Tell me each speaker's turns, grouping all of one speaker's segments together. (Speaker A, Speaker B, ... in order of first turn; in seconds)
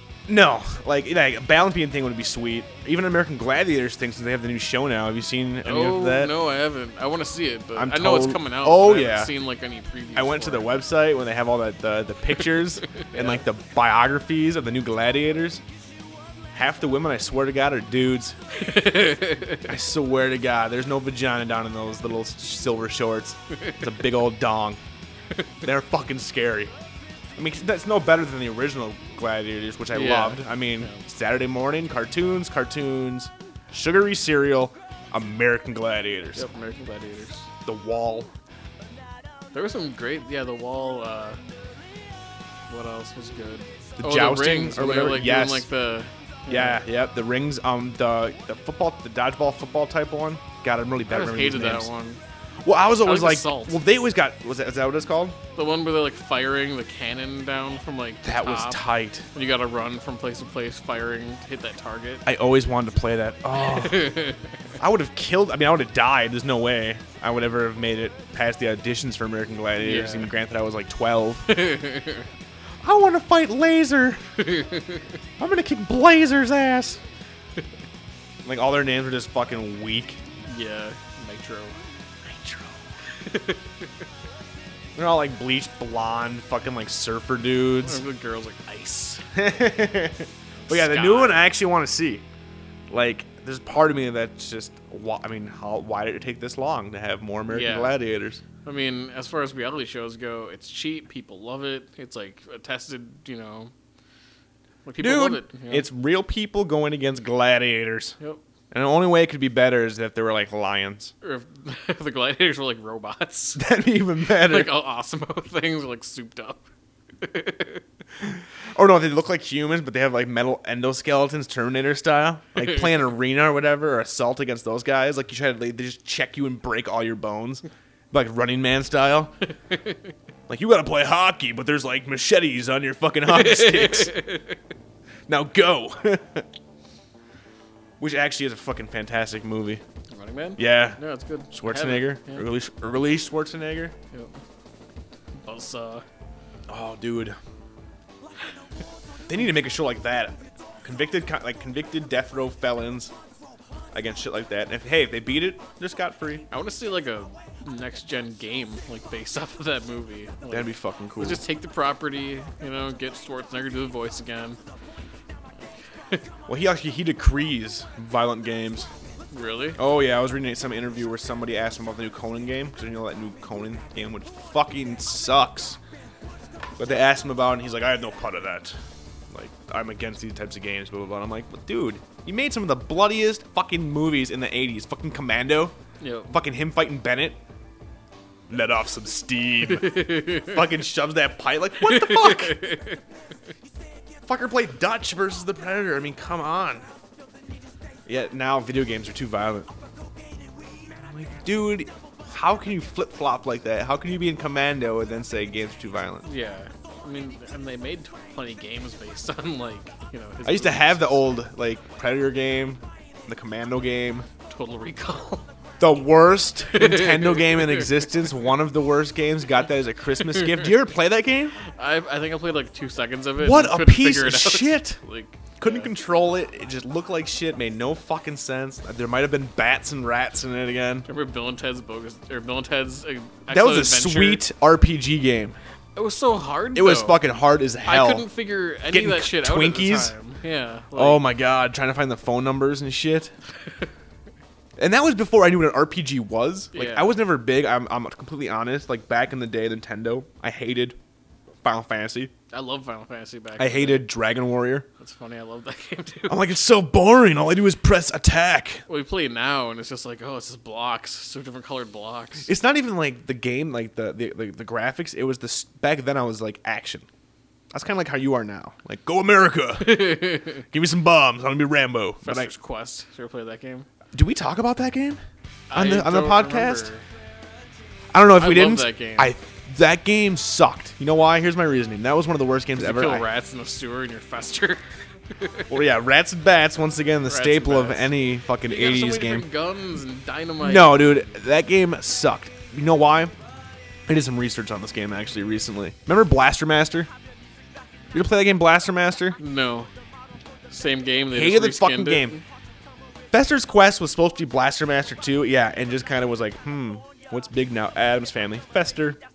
Speaker A: 0.3-6.3, 7.8-9.3, 10.1-15.6, 16.5-18.4, 19.6-24.8, 25.6-26.7, 27.4-36.5, 37.6-38.3, 44.0-45.7, 46.5-51.9, 52.6-55.4, 58.2-59.2, 62.2-64.1, 64.8-71.6, 72.8-74.2, 75.4-77.0, 78.4-80.2, 82.2-82.8, 85.0-88.0, 89.3-92.2, 92.9-98.4, 105.0-108.2, 108.7-111.1, 113.5-114.7, 118.2-129.3, 130.5-134.2, 135.3-136.5, 138.0-139.8, 140.6-141.0, 141.5-143.9, 146.7-147.4, 149.3-153.1, 153.9-156.4, 160.5-161.4, 166.5-168.9, 169.8-175.8, 176.8-178.7, 179.3-185.7, 186.3-187.4, 188.5-192.6, 194.2-196.9, 198.1-199.7, 200.9-206.2, 210.4-214.3, 215.8-221.5, 223.4-225.0, 225.6-231.1, 233.5-235.6, 236.7-238.2, 238.9-240.1, 240.9-243.3, 244.8-251.0, 251.6-252.3, 253.6-254.8, 256.3-258.8, 262.5-267.1, 267.7-272.5, 274.1-275.2, 275.7-276.9, 278.1-283.2, 285.7-289.4, 290.6-293.3, 294.1-297.1, 298.1-299.4, 301.3-302.4, 303.3-309.2
Speaker B: 5.6-10.8, 12.9-13.4, 18.5-19.7, 23.5-23.8, 29.9-31.0, 36.3-37.5, 39.5-41.4, 42.7-46.8, 51.1-52.2, 53.0-53.8, 55.5-62.2, 63.6-64.5, 69.8-70.3, 71.5-72.3, 74.4-75.1, 80.5-81.8, 83.1-83.7, 87.8-89.2, 90.6-91.4, 97.5-98.0, 98.6-103.7, 104.8-105.9, 111.2-113.6, 114.3-116.7, 117.2-117.8, 129.7-130.0, 133.3-134.6, 140.1-142.4, 145.4-146.0, 156.5-164.6, 169.3-169.8, 186.0-186.3, 189.7-190.6, 191.8-193.0, 206.2-211.2, 214.5-215.5, 216.7-218.2, 220.3-220.6, 221.6-225.9, 231.1-234.4, 235.9-237.2, 237.8-241.2, 246.7-247.2, 252.5-254.1, 255.0-256.5, 258.9-262.5, 269.8-270.6, 272.2-273.9, 275.7-277.0, 278.4-279.3, 282.8-285.8, 287.3-291.1, 299.4-299.9, 300.7-302.4